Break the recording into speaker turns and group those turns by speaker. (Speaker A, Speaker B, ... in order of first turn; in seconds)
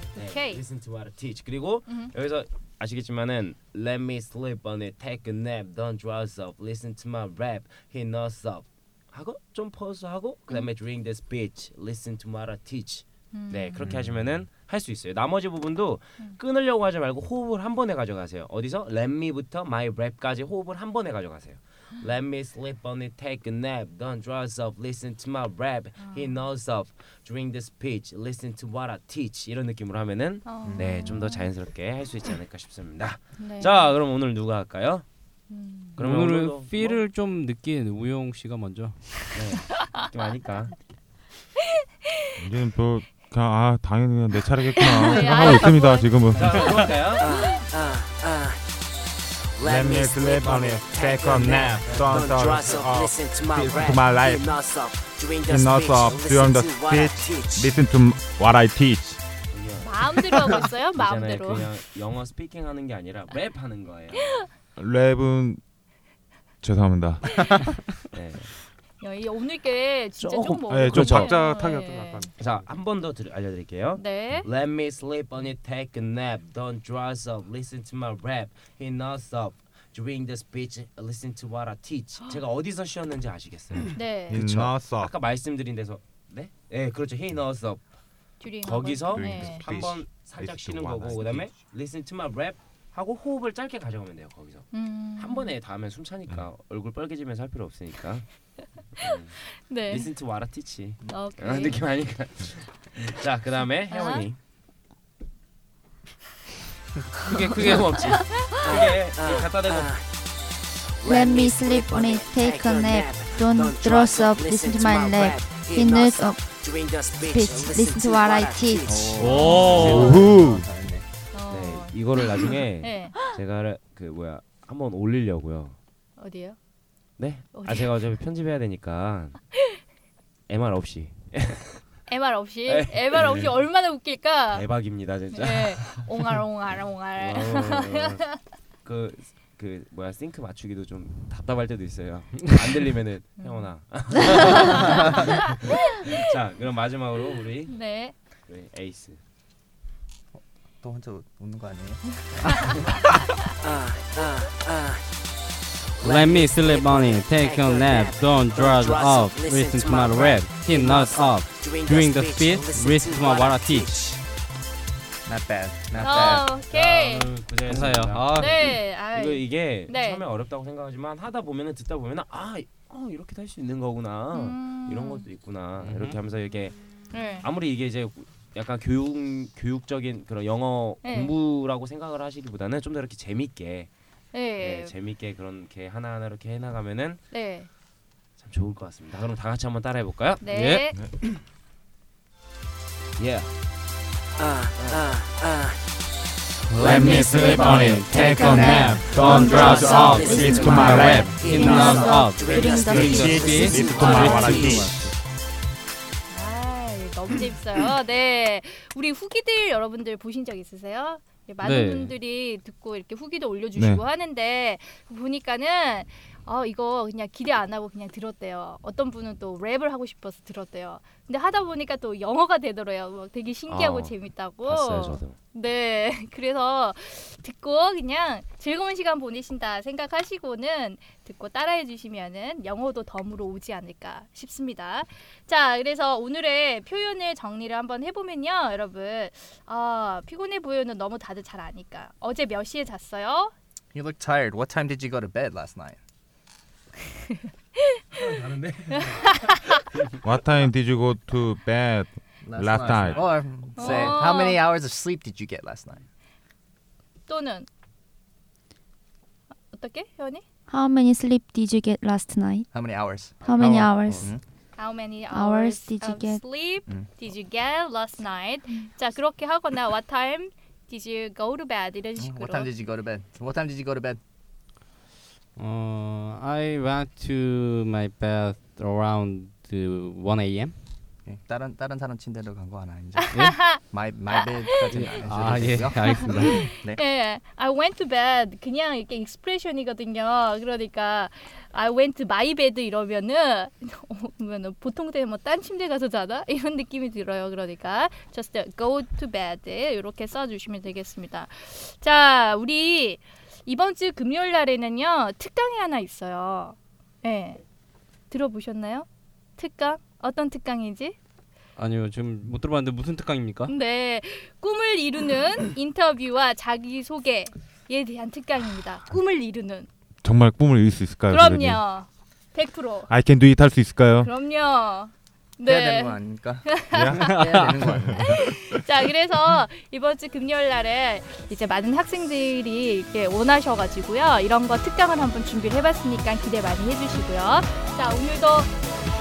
Speaker A: 0.2-0.6, 13.3-13.8, 26.0-26.4, 30.4-31.5, 33.4-33.9, 35.5-36.0, 39.8-40.1, 44.8-47.6, 59.8-61.7, 67.3-67.6, 69.0-72.3, 74.0-74.5, 84.0-84.4, 88.4-89.7, 94.7-95.5, 99.5-100.1, 101.1-101.8, 103.9-104.3, 119.2-120.2, 121.3-122.0, 122.8-123.2, 126.2-126.6, 127.5-127.9, 132.1-134.7, 135.3-138.4, 143.4-143.7, 144.3-146.2, 147.7-148.1, 166.0-167.3, 168.4-170.2, 174.3-175.2, 177.1-177.5, 181.0-181.3, 184.3-184.9, 187.3-187.7, 190.4-191.0, 206.3-243.5, 247.3-248.1, 248.9-249.6, 253.8-254.6, 257.3-257.7, 259.7-260.4, 264.8-272.7, 283.2-283.8, 284.3-284.9, 286.6-307.6, 308.3-311.2, 313.7-319.9, 321.3-323.1, 324.2-327.3, 328.1-338.7
Speaker B: 0.2-35.0, 36.0-37.0, 39.3-40.8, 46.4-47.3, 51.8-52.8, 59.5-64.5, 68.1-68.5, 70.2-71.4, 72.4-87.8, 88.6-98.3, 99.0-104.4, 107.2-109.9, 121.5-125.8, 127.2-129.4, 130.5-131.8, 132.7-133.6, 134.5-136.1, 137.2-138.3, 138.8-147.8, 148.5-149.2, 166.0-176.8, 177.4-183.9, 184.6-187.2, 188.4-190.4, 193.2-193.5, 223.7-225.4, 248.2-249.6
Speaker C: 30.7-31.1, 118.9-121.0, 150.8-152.8, 165.3-166.5, 243.9-246.0, 252.4-256.0, 262.7-264.4, 272.2-274.2, 281.2-287.0, 325.6-328.4
Speaker D: 36.0-39.0, 107.2-108.5, 118.9-120.3, 156.0-163.9, 167.7-168.8, 175.8-176.2, 190.5-190.9, 196.7-204.9, 211.6-212.2, 275.6-280.8, 283.3-283.7, 284.9-286.7, 311.8-313.7, 327.2-327.9
Speaker E: 42.4-47.0, 49.6-54.5, 55.5-59.2, 64.8-65.6, 66.6-67.7, 70.7-72.3, 84.3-85.1, 89.0-91.6, 119.7-120.7, 196.9-201.5, 202.8-205.1, 213.8-214.0, 250.2-253.2, 320.2-321.8, 323.1-324.3, 326.9-328.8
Speaker F: 47.1-48.6, 49.6-57.8, 108.6-110.1, 111.0-119.4, 153.6-155.0, 156.0-164.2, 194.4-195.8, 196.8-205.1
Speaker G: 111.0-116.4, 117.1-118.9, 196.9-204.8, 260.7-262.7, 263.4-264.3, 265.3-266.4